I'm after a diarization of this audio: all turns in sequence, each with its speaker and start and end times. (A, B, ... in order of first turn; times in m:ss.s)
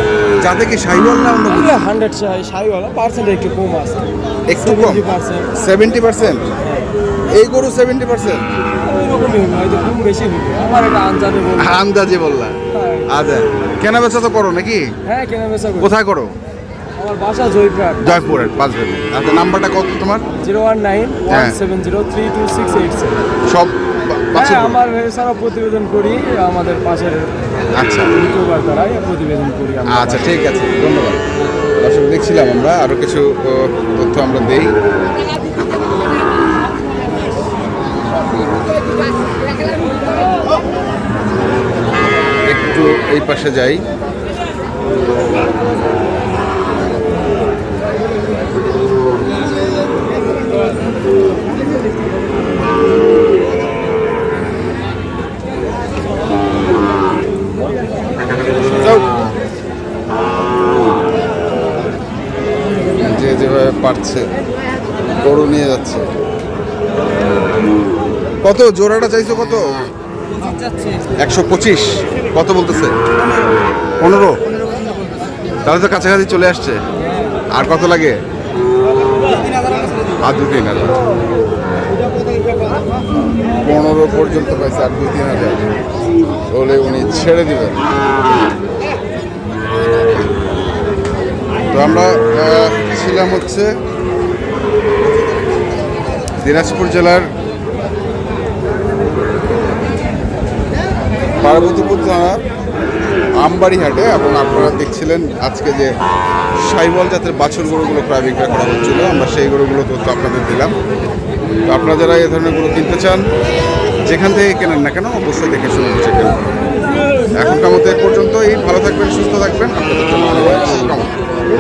0:00.4-0:01.8 A
0:01.5-0:05.5 B
0:04.5-0:06.4 A
0:07.3-0:08.4 A
0:08.8-0:11.8 B
0:11.6-0:12.6 A
0:12.7-0:13.1 B
0:13.1-0:14.8 A
0:15.1-0:15.9 B
0:15.8-0:16.4 A
0:17.0-0:18.2 B
0:18.0-0:20.3 A
0:20.3-0:23.3 B
0:21.3-0:21.6 A
0:23.5-0:24.8 A
0:24.4-0:27.5 B
0:27.8-0:28.1 A
0:28.1-0:30.4 B
0:29.9-0:31.2 A
0:31.8-0:34.7 A
0:42.4-0:43.8 A
0:58.7-0:59.1 A
1:03.0-1:04.3 A
1:05.2-1:06.1 A
1:08.4-1:09.8 A
1:10.6-1:11.0 B
1:11.2-1:13.0 A
1:14.0-1:14.4 A
1:15.6-1:16.8 A
1:17.5-1:18.2 A
1:20.2-1:20.9 A
1:22.1-1:22.8 B
1:23.6-1:25.6 A
1:26.5-1:27.8 A
1:31.7-1:33.7 A
1:36.4-1:37.3 A
1:41.4-1:42.4 A
1:43.4-1:45.9 A
1:46.6-1:50.7 A
1:51.7-1:53.3 A
1:54.0-1:56.5 A
1:57.3-2:01.1 A